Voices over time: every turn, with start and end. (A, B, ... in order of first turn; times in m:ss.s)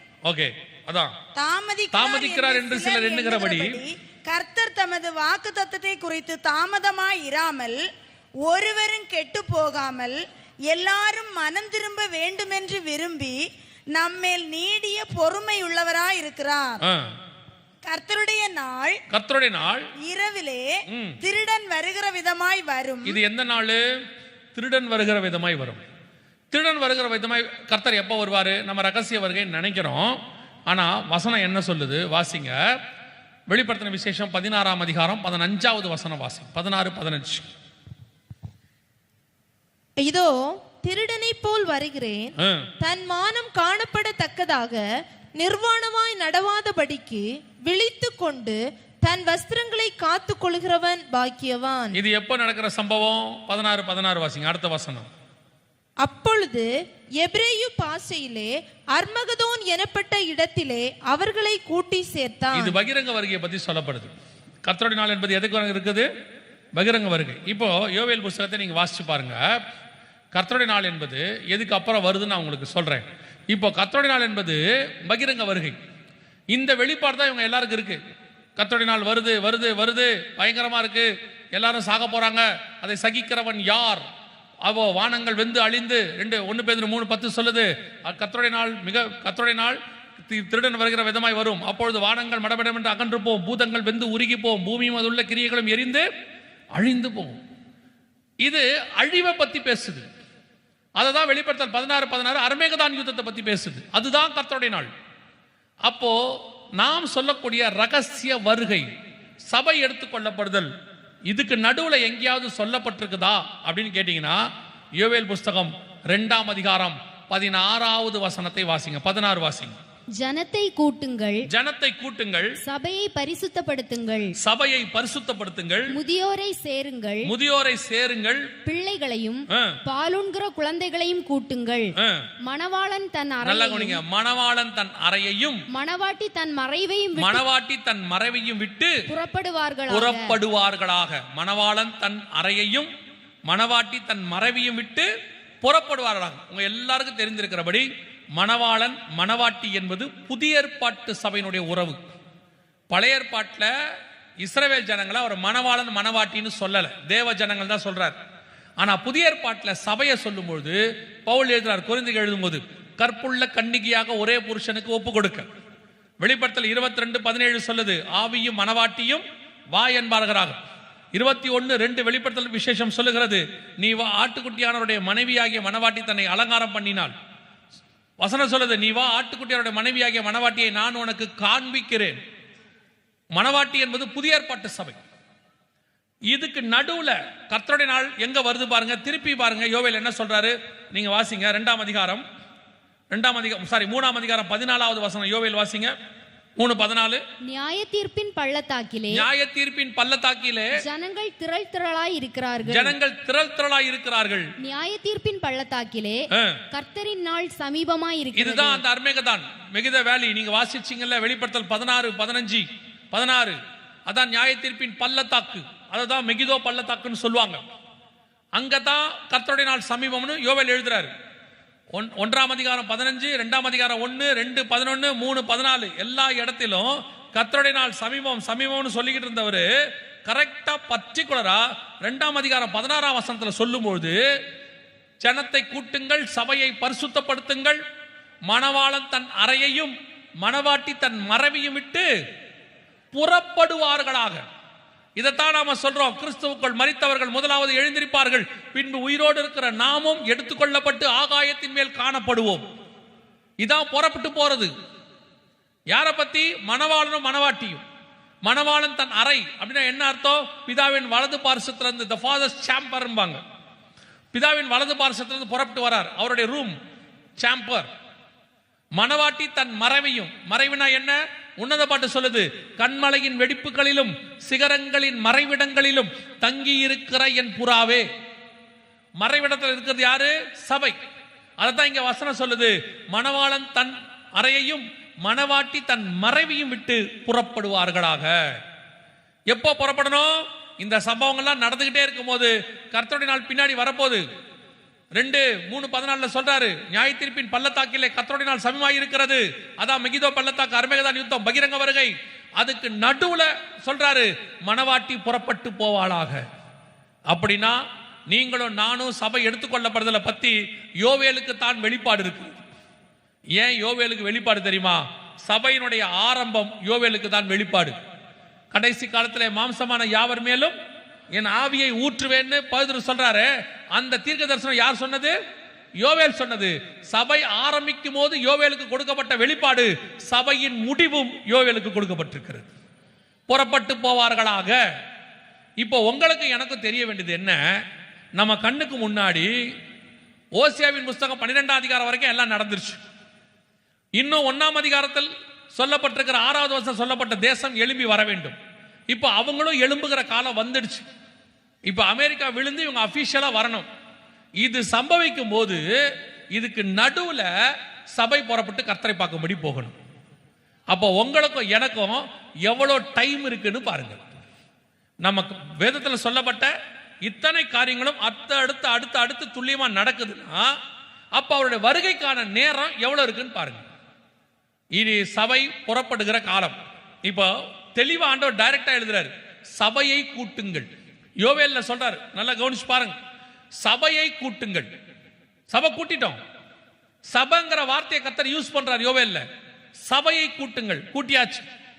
0:00.3-0:01.2 A
0:01.4-0:07.8 B
0:01.9-0:03.8 A
0:08.4-0:13.4 B
0:13.9-0:16.8 B
0:16.8-0:17.1 A
0:17.9-0:19.0 B
0:19.1-0:19.9 A
0:20.0-0:20.6 B
0:20.9-0:21.2 A
0:21.2-0:23.2 B
0:23.0-0:23.8 A
0:24.6-0:25.8 A
0:26.5-0:30.2 A
0:30.7-0:32.6 A
0:33.5-0:37.5 A
0:40.0-0:44.8 C
0:42.4-0:42.7 A
0:45.4-0:52.0 C
0:51.9-0:55.1 A
0:56.0-0:56.7 C
0:57.2-1:02.8 C
1:02.5-1:04.1 A
1:04.7-1:06.1 A
1:06.8-1:09.6 A
1:10.3-1:15.8 A
1:16.5-1:18.0 A
1:18.6-1:24.0 A
1:24.6-1:36.1 A
1:36.8-1:37.4 A
1:38.4-1:40.1 A
1:41.0-1:44.9 A
1:45.8-1:46.2 A
1:46.8-1:48.9 A
1:49.5-1:50.7 A
1:51.3-1:54.4 A
1:55.0-1:59.8 A
2:00.2-2:01.4 D
2:01.5-2:02.6 A
2:02.6-2:04.3 D
2:04.4-2:06.0 A
2:05.9-2:07.3 D
2:07.3-2:08.5 A
2:08.7-2:11.9 D
2:09.5-2:09.8 A
2:12.0-2:12.3 A
2:12.5-2:14.0 D
2:13.4-2:15.6 A
2:15.7-2:17.4 D
2:17.2-2:19.0 A
2:19.1-2:20.3 D
2:19.9-2:22.9 A
2:23.5-2:25.1 A
2:25.6-2:32.0 A
2:32.9-2:33.7 A
2:34.4-2:38.2 A
2:38.8-2:45.5 A
2:46.2-2:50.6 A
2:51.1-2:57.1 A
2:58.2-3:02.2 A
3:03.3-3:05.0 A
3:06.3-3:12.2 A
3:13.1-3:16.0 A
3:16.6-3:17.2 A
3:17.4-3:19.2 D
3:19.1-3:20.8 A
3:20.8-3:23.0 D
3:22.6-3:24.5 A
3:24.6-3:28.8 D
3:26.3-3:26.6 A
3:28.4-3:37.6 A
3:38.6-3:41.1 A
3:41.9-3:49.7 A
3:50.2-3:54.2 A
3:55.2-3:57.8 A
3:58.5-4:02.1 A
4:03.1-4:04.4 A
4:05.2-4:12.7 A
4:13.6-4:14.7 A
4:15.9-4:17.8 A
4:18.4-4:23.4 A
4:24.3-4:26.8 A
4:27.4-4:27.9 A
4:29.0-4:38.1 A
4:39.2-4:41.0 A
4:41.6-4:48.4 A
4:49.5-4:54.2 A
4:55.2-5:06.4 A
5:07.3-5:07.8 A
5:08.3-5:12.7 A
5:13.6-5:18.0 A
5:18.7-5:20.8 A
5:21.3-5:25.4 A
5:26.0-5:32.7 A
5:33.5-5:34.8 A
5:35.8-5:37.6 A
5:38.4-5:39.5 A
5:40.6-5:43.0 A
5:44.2-5:48.6 A
5:49.1-5:51.1 A
5:51.9-5:53.9 A
5:54.6-5:55.9 A
5:56.5-5:57.5 A
5:58.1-6:00.0 A
6:00.9-6:04.4 A
6:05.2-6:06.7 A
6:07.2-6:10.7 A
6:11.4-6:13.8 A
6:14.9-6:20.9 A
6:21.4-6:23.2 A
6:23.8-6:24.9 A
6:25.7-6:26.4 A
6:27.3-6:29.4 A
6:30.0-6:31.6 A